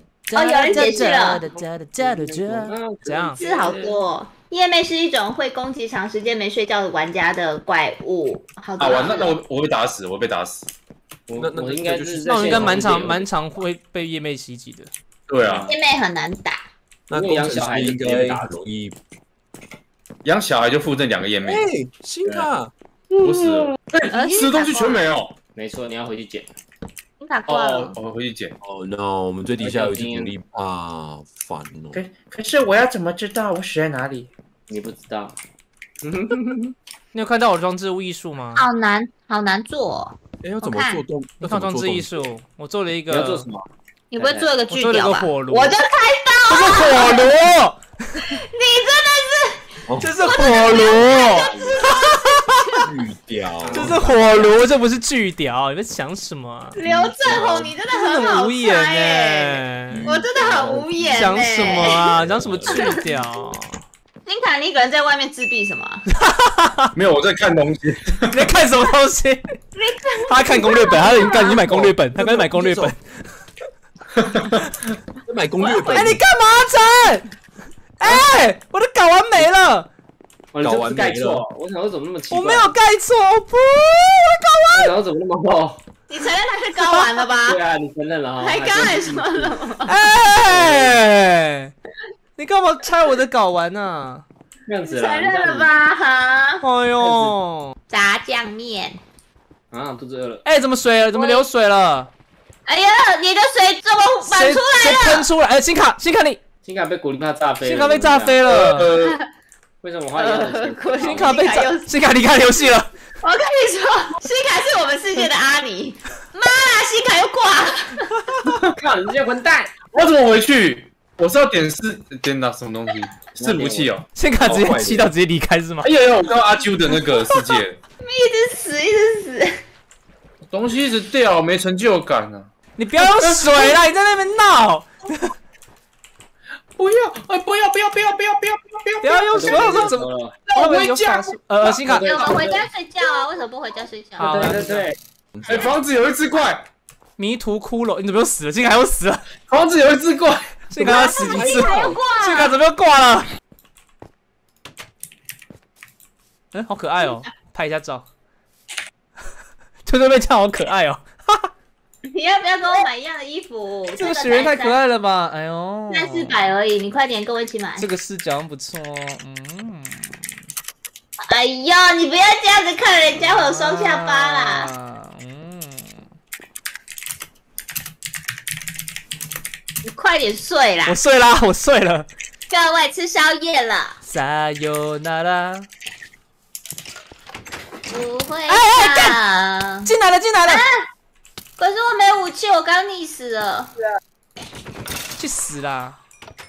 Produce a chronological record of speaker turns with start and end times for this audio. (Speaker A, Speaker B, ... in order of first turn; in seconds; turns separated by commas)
Speaker A: 0.3-3.4, Speaker B: 0.3-1.4, Speaker C: 1.4-4.0, Speaker B: 3.4-9.3, Speaker D: 8.8-10.7, Speaker C: 11.3-13.3, Speaker E: 11.4-13.1, Speaker A: 12.2-14.9, Speaker D: 15.3-15.7, Speaker C: 15.4-15.8, Speaker B: 15.7-16.6, Speaker C: 17.1-18.5, Speaker E: 17.1-19.0, Speaker D: 20.2-21.7, Speaker E: 21.4-22.7, Speaker C: 22.2-22.5, Speaker D: 23.2-25.3, Speaker C: 23.2-23.7, Speaker B: 24.1-25.1, Speaker C: 25.5-26.5, Speaker B: 27.2-27.9, Speaker D: 27.5-28.5, Speaker E: 28.6-32.0, Speaker C: 29.6-30.3, Speaker D: 31.9-34.3, Speaker C: 34.7-35.4, Speaker C: 36.0-36.7, Speaker A: 37.1-38.6, Speaker B: 38.5-41.0, Speaker E: 40.4-42.3, Speaker A: 41.4-43.5, Speaker C: 43.1-44.5, Speaker B: 44.1-47.3, Speaker A: 44.7-45.8, Speaker A: 46.5-48.3, Speaker B: 48.2-52.9, Speaker E: 49.9-50.2, Speaker A: 50.0-52.4, Speaker C: 50.8-52.1, Speaker E: 52.8-54.1, Speaker C: 53.6-54.6, Speaker A: 53.7-56.8, Speaker B: 56.7-62.2, Speaker C: 56.8-57.8, Speaker A: 57.9-60.1, Speaker E: 59.9-60.3, Speaker C: 60.3-63.2, Speaker A: 61.1-63.8, Speaker B: 64.2-66.0, Speaker A: 66.1-66.9, Speaker D: 66.9-68.5, Speaker A: 68.3-69.4, Speaker B: 69.8-71.6, Speaker A: 70.3-73.0, Speaker E: 71.6-72.9, Speaker D: 74.2-74.7, Speaker E: 75.2-76.2, Speaker B: 75.6-76.2, Speaker A: 75.9-77.2, Speaker A: 78.0-79.9, Speaker C: 80.5-82.7, Speaker E: 80.6-81.4, Speaker A: 82.3-85.0, Speaker C: 84.7-85.8, Speaker B: 86.1-87.6, Speaker A: 86.7-87.2, Speaker C: 87.4-89.7, Speaker B: 88.4-90.0, Speaker A: 89.8-91.7, Speaker C: 90.3-91.0, Speaker A: 92.4-94.2, Speaker C: 94.7-95.7, Speaker B: 94.8-96.6, Speaker A: 96.6-97.7, Speaker C: 97.0-97.3, Speaker B: 97.9-99.0, Speaker C: 99.7-100.4, Speaker A: 100.4-102.1, Speaker B: 102.7-105.3, Speaker A: 104.2-106.4, Speaker C: 106.6-109.2, Speaker A: 107.6-108.9, Speaker B: 108.9-109.3, Speaker C: 109.8-111.4, Speaker B: 110.2-111.9, Speaker A: 111.0-112.9, Speaker B: 113.2-118.3, Speaker D: 118.4-118.7, Speaker C: 118.8-119.8, Speaker D: 119.9-124.0, Speaker C: 123.3-123.9, Speaker A: 124.1-125.9, Speaker E: 124.4-125.1, Speaker D: 125.8-127.8, Speaker B: 128.0-129.6, Speaker D: 130.5-133.8, Speaker A: 132.8-135.3, Speaker D: 136.8-139.9, Speaker A: 139.0-142.4, Speaker C: 139.3-140.5, Speaker D: 140.5-141.3, Speaker C: 141.6-142.7, Speaker B: 142.0-144.6, Speaker A: 144.2-144.8, Speaker C: 144.2-144.9, Speaker E: 145.3-145.8, Speaker D: 145.4-146.7, Speaker A: 147.2-149.2, Speaker D: 149.5-150.7, Speaker A: 150.7-153.3, Speaker E: 150.8-152.0, Speaker B: 150.9-152.5, Speaker A: 156.5-158.1, Speaker A: 159.8-161.5, Speaker B: 162.1-164.8, Speaker A: 164.0-166.4, Speaker B: 165.9-167.8, Speaker A: 167.8-170.2, Speaker B: 171.3-174.7, Speaker A: 173.1-176.0, Speaker B: 179.8-181.0, Speaker A: 180.8-182.1, Speaker B: 182.5-184.0, Speaker A: 184.0-185.7, Speaker B: 187.9-189.9, Speaker A: 188.5-189.2, Speaker A: 189.8-190.6, Speaker B: 190.4-190.9, Speaker B: 191.6-193.7, Speaker A: 195.2-196.0